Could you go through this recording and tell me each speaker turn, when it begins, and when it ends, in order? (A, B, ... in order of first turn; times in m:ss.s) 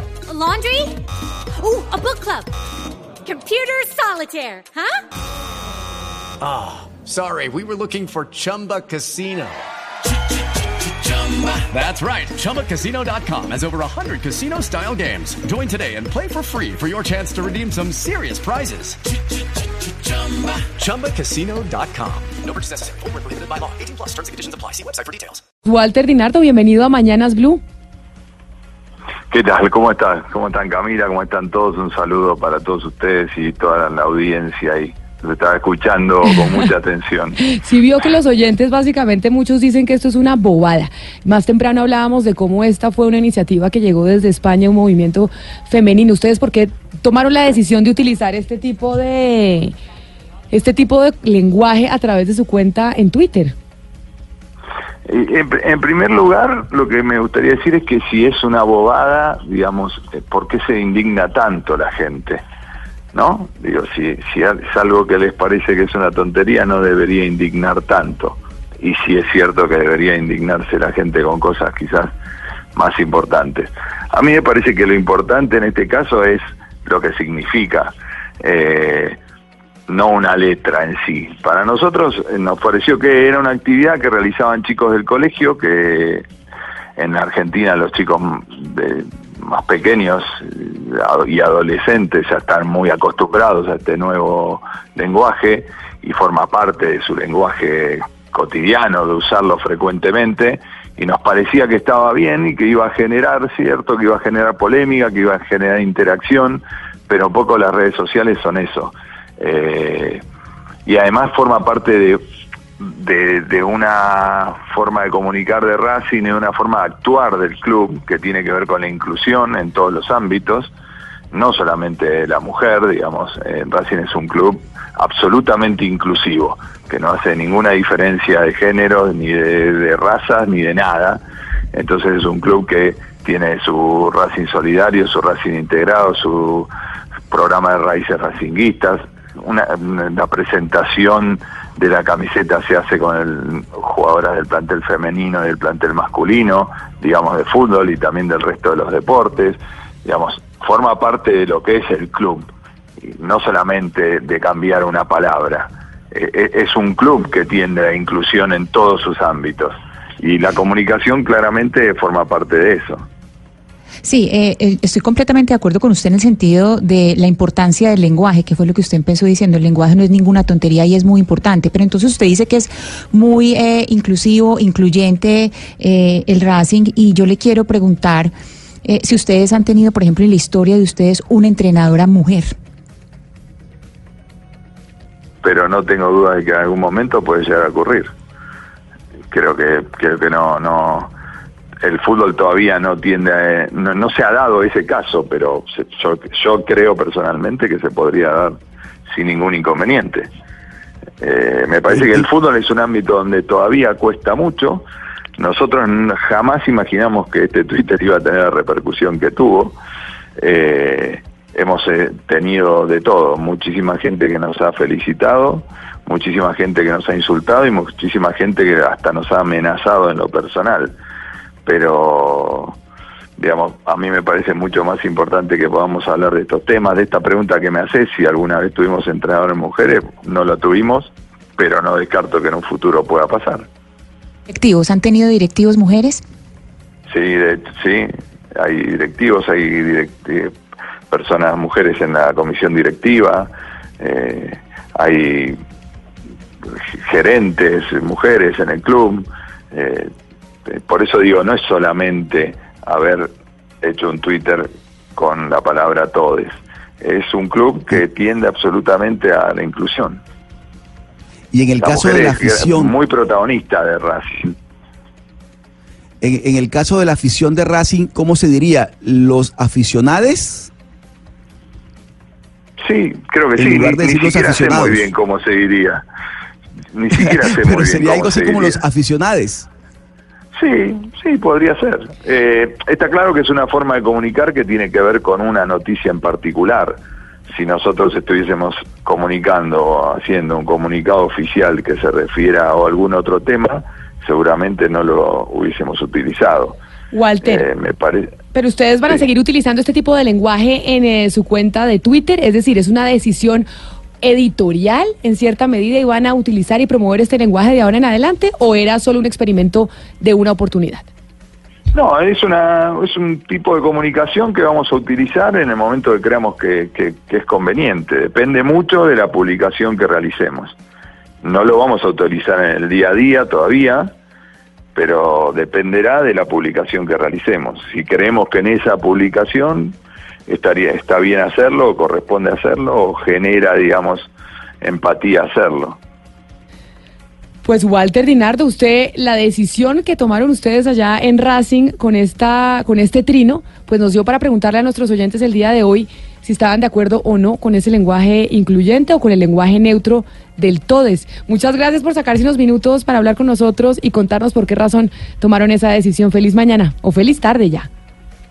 0:00.3-0:01.0 A
0:01.6-0:02.5 A
0:03.2-0:05.0 A
0:06.4-0:09.6 B
0:11.0-0:19.0 B
0:19.8-0:25.4 B
0:25.6-0:27.6 C
0:29.3-0:37.4 D
0:37.4-0:49.7 C
0:50.5-0:53.6 C
0:55.0-1:02.4 D
1:03.1-1:12.1 D
1:12.7-1:19.2 D
1:19.9-1:26.2 D
1:27.0-1:50.2 D
1:50.8-1:52.2 D
1:52.8-2:00.7 D
2:01.3-2:11.2 D
2:11.7-2:16.7 D
2:17.3-2:32.5 D
2:33.0-2:43.0 D
2:44.0-2:58.3 E
2:58.8-3:02.5 E
3:05.4-3:08.1 D
3:09.3-3:11.1 D
3:11.8-3:18.6 D
3:19.1-3:20.3 D
3:21.2-3:24.8 D
3:25.4-3:29.8 D
3:30.4-3:41.0 D
3:41.6-3:42.8 D
3:43.4-3:53.7 D
3:54.5-3:56.2 E
3:57.1-4:00.5 D
4:01.1-4:03.5 D
4:04.0-4:05.6 D
4:06.7-4:10.1 D
4:10.7-4:20.2 D
4:21.5-4:22.9 F
4:21.8-4:24.5 D
4:26.2-4:30.7 F
4:32.8-4:36.0 D
4:33.6-4:35.0 F
4:36.9-4:38.8 D
4:37.1-4:39.7 F
4:40.5-4:56.8 D
4:57.1-4:57.6 C
4:57.4-4:58.4 D
4:58.5-5:03.6 C
5:04.2-5:11.1 C
5:11.9-5:20.8 D
5:21.4-5:24.1 D
5:24.9-5:34.3 D
5:34.8-5:36.0 D
5:37.6-5:57.9 C